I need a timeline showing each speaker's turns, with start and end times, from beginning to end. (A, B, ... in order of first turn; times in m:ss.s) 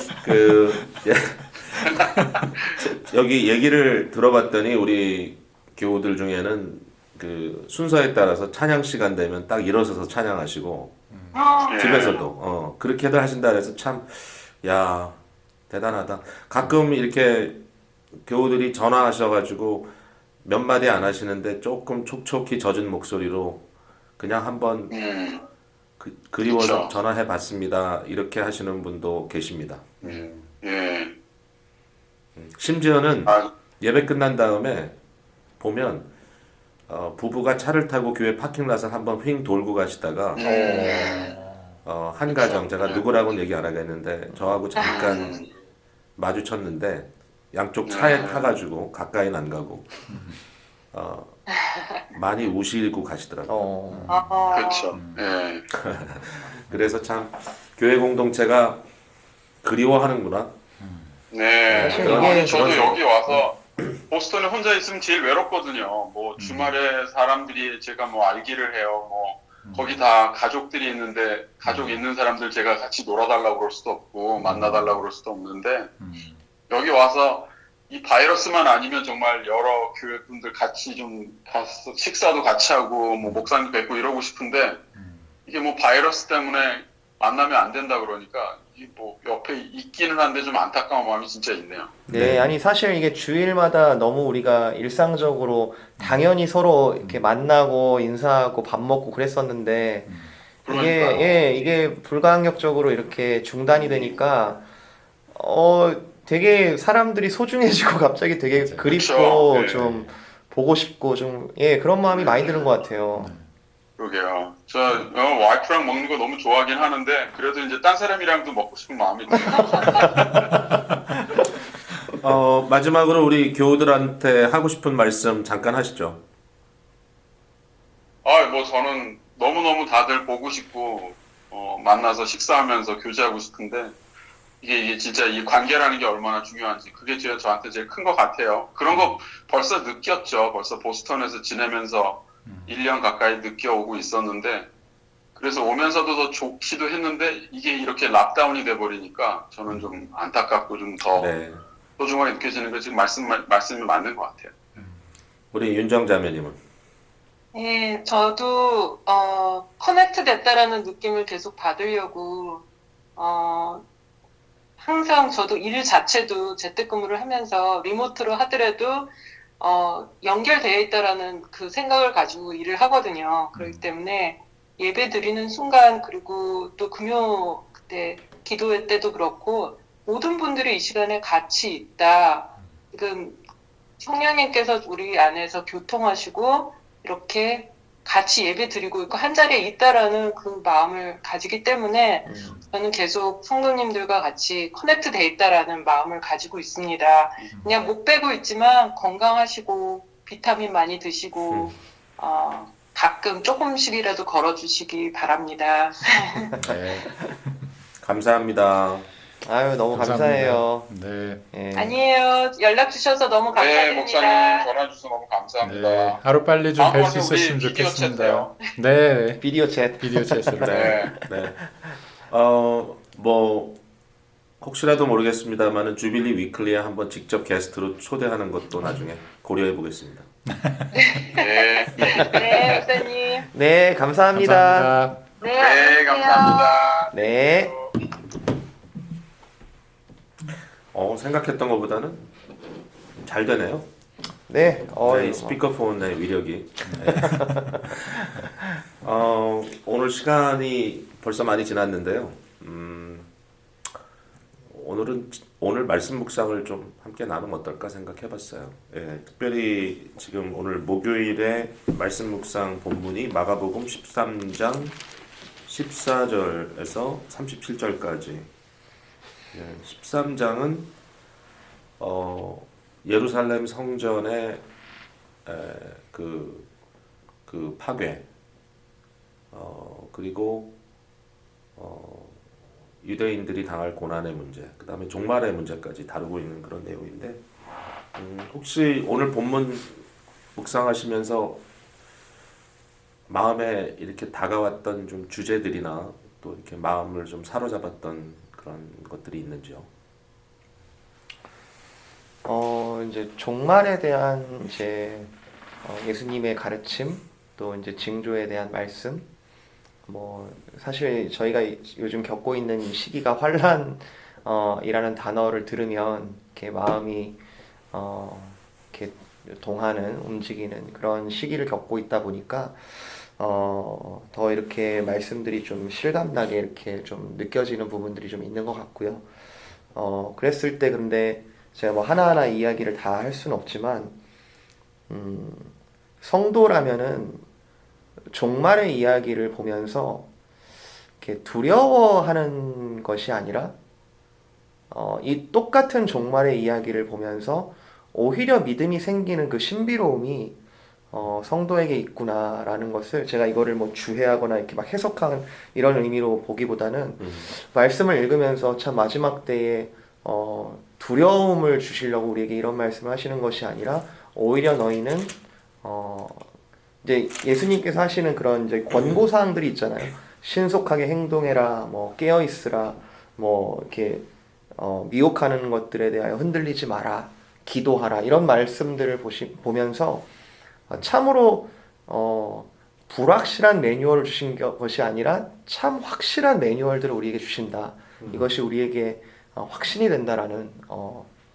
0:00.2-0:02.0 A
0:01.8-0:02.8 B
0:02.8-0:11.0 A
0:11.1-0:11.4 C
0:11.3-0:12.1 D
0:11.7-0:12.2 B
0:11.7-0:17.6 A
0:18.2-0:19.9 A
0:20.4-0:23.6 A
0:24.2-0:24.9 A
0:24.9-0:25.4 B
0:26.0-0:30.0 A
0:26.4-0:26.9 B
0:30.0-0:31.1 B
0:30.0-0:30.5 C
0:32.4-0:34.9 A
0:35.6-0:36.1 A
0:36.9-0:41.2 A
0:40.3-0:41.3 B
0:40.4-0:41.4 D
0:41.8-0:45.4 A
0:42.3-0:43.0 B
0:44.3-0:44.6 E
0:44.8-0:45.3 D
0:44.8-0:45.5 B
0:46.2-0:50.0 A
0:47.8-0:48.6 B
0:50.1-0:50.4 C
0:50.9-0:51.4 A
0:51.7-0:52.0 D
0:52.1-0:53.7 A
0:53.5-0:54.1 E
0:53.9-0:55.2 C
0:54.1-0:54.9 D
0:54.5-0:55.7 B
0:55.8-0:58.8 A
0:59.6-1:00.5 A
1:00.8-1:01.2 C
1:01.3-1:16.0 B
1:01.7-1:02.8 E
1:01.7-1:03.0 A
1:06.4-1:06.8 C
1:09.6-1:10.0 C
1:11.6-1:12.1 C
1:14.4-1:15.0 C
1:16.0-1:16.4 C
1:16.7-1:24.8 B
1:23.2-1:23.5 C
1:24.9-1:25.3 C
1:25.4-1:31.9 B
1:32.1-1:44.6 E
1:32.1-1:32.5 A
1:32.1-1:32.5 C
1:36.0-1:36.2 C
1:40.0-1:40.4 C
1:40.6-1:41.7 B
1:43.7-1:44.2 B
1:45.3-1:53.3 E
1:48.5-1:50.1 C
1:48.9-1:49.8 B
1:52.1-1:52.7 B
1:53.1-1:53.5 C
1:54.0-2:00.4 B
1:59.5-2:00.1 E
2:02.1-2:06.2 A
2:08.2-2:14.0 B
2:14.6-2:24.7 B
2:18.9-2:19.2 C
2:22.4-2:22.8 C
2:25.3-2:31.3 B
2:31.1-2:31.6 A
2:32.0-2:34.6 B
2:34.8-2:35.0 C
2:35.5-2:36.6 A
2:37.5-2:42.6 D
2:43.2-2:43.8 D
2:44.8-3:03.4 D
2:53.5-2:53.9 C
3:04.0-3:26.5 D
3:12.2-3:12.6 E
3:17.5-3:17.8 C
3:21.5-3:21.7 A
3:26.6-3:27.2 C
3:26.6-3:27.2 E
3:28.0-3:29.1 A
3:29.4-3:30.9 E
3:29.9-3:31.4 C
3:31.5-3:32.0 E
3:31.7-3:34.7 D
3:33.5-3:36.2 B
3:35.6-3:40.9 C
3:36.8-3:38.7 B
3:39.4-3:41.3 E
3:40.6-3:41.6 A
3:40.7-3:41.1 B
3:42.3-3:43.8 A
3:44.6-3:50.3 A
3:50.9-3:53.5 D
3:51.3-3:52.9 B
3:53.5-3:55.0 E
3:54.3-3:55.2 C
3:55.4-3:56.7 D
3:55.4-3:57.9 B
3:57.1-3:57.8 E
4:00.9-4:02.3 A
4:03.2-4:03.9 A
4:04.5-4:05.6 E
4:05.0-4:08.2 A
4:06.9-4:07.4 C
4:07.1-4:08.7 E
4:09.0-4:13.3 A
4:14.6-4:25.0 A
4:25.6-4:28.5 A
4:29.5-4:30.9 A
4:32.0-4:34.6 A
4:35.4-4:36.7 A
4:37.4-4:38.2 A
4:39.5-4:40.7 A
4:41.8-4:42.4 A
4:43.0-4:47.4 A
4:48.1-4:51.6 A
4:53.3-4:59.9 A
5:02.4-5:05.3 E
5:05.8-5:09.2 E
5:10.0-5:17.4 E
5:17.9-5:29.3 E
5:29.9-5:34.1 E
5:35.1-5:37.4 E
5:38.3-5:40.2 E
5:41.2-5:43.7 E
5:44.9-5:50.6 E
5:51.1-6:06.5 E
5:57.2-5:57.5 A
6:07.0-6:20.3 E
6:20.9-6:31.3 E
6:28.2-6:28.5 A